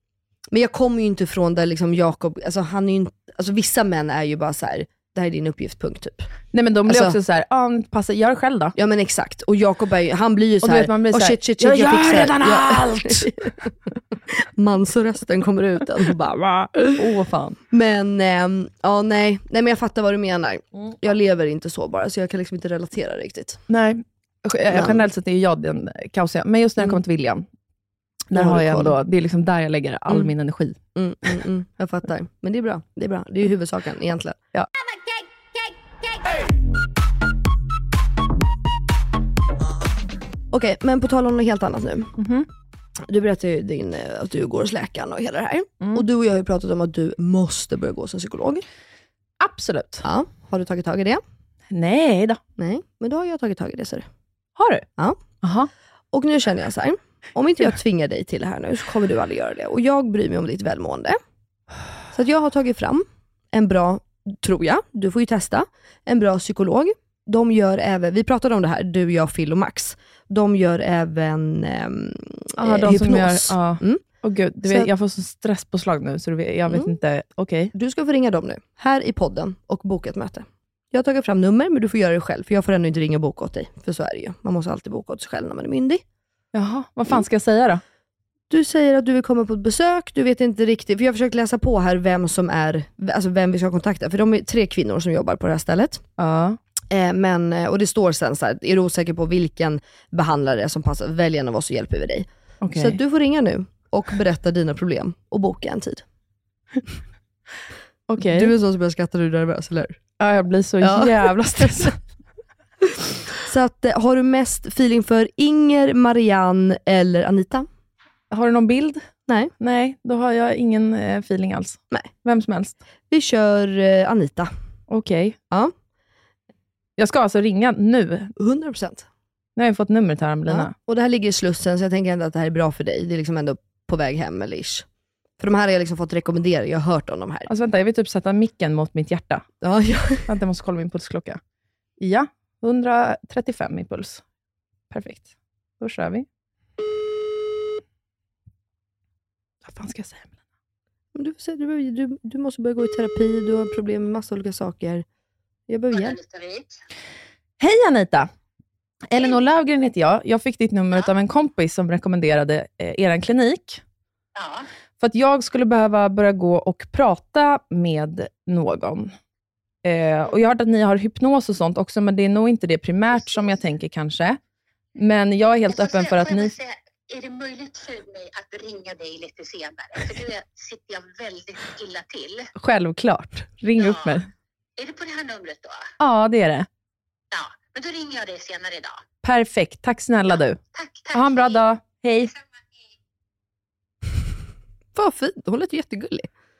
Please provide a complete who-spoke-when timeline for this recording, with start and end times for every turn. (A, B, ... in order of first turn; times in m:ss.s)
0:00.5-0:06.3 A
0:06.5-0:08.7 B
0:06.9-0:07.2 A
0:08.8-0:13.7 A
0:10.6-0:13.3 B
0:14.3-0:17.0 A
0:16.9-0:17.6 B
0:17.7-0:23.6 A
0:23.7-0:27.4 B
0:24.7-0:25.0 A
0:28.3-0:30.8 B
0:28.3-0:28.9 A
0:30.9-0:34.4 A
0:40.5-0:42.1 A
0:42.2-0:42.5 B
0:43.0-0:48.6 A
0:45.8-0:46.0 B
0:49.4-0:50.0 B
0:50.0-0:51.2 A
0:51.7-0:52.4 B
0:52.6-0:54.1 A
0:54.6-0:54.8 B
0:55.4-0:55.7 B
0:56.1-1:01.2 A
1:02.1-1:14.0 A
1:12.6-1:17.7 B
1:14.6-1:14.9 A
1:17.7-1:26.0 A
1:26.5-1:27.8 B
1:28.5-1:36.0 A
1:36.2-1:36.6 B
1:36.9-1:46.0 A
1:42.6-1:43.0 B
1:48.1-1:48.5 B
1:48.2-1:50.0 A
1:50.2-1:52.0 B
1:50.8-1:51.9 A
1:52.8-1:57.7 A
1:58.3-1:59.1 B
1:59.3-1:59.5 A
1:59.6-2:02.8 B
2:03.1-2:04.5 A
2:04.9-2:05.4 B
2:07.0-2:08.3 B
2:08.4-2:09.0 A
2:09.6-2:10.7 B
2:10.5-2:14.8 A
2:15.4-2:17.5 A
2:17.5-2:19.5 B
2:19.6-2:20.3 A
2:20.3-2:21.4 B
2:22.0-2:24.2 B
2:24.9-2:25.2 B
2:25.8-2:26.2 B
2:29.6-2:30.3 B
2:31.1-2:35.0 A
2:35.7-2:36.2 A
2:35.9-2:36.7 C
2:37.6-2:38.3 B
2:39.1-2:43.8 B
2:44.4-2:44.6 C
2:45.0-2:49.1 B
2:49.8-2:54.4 B
2:55.0-2:56.5 B
2:55.7-3:02.5 C
3:02.6-3:04.3 B
3:03.8-3:04.2 C
3:04.8-3:05.8 C
3:06.0-3:06.7 B
3:07.3-3:09.0 C
3:09.2-3:10.6 B
3:10.3-3:11.6 C
3:11.1-3:12.3 B
3:14.9-3:16.3 A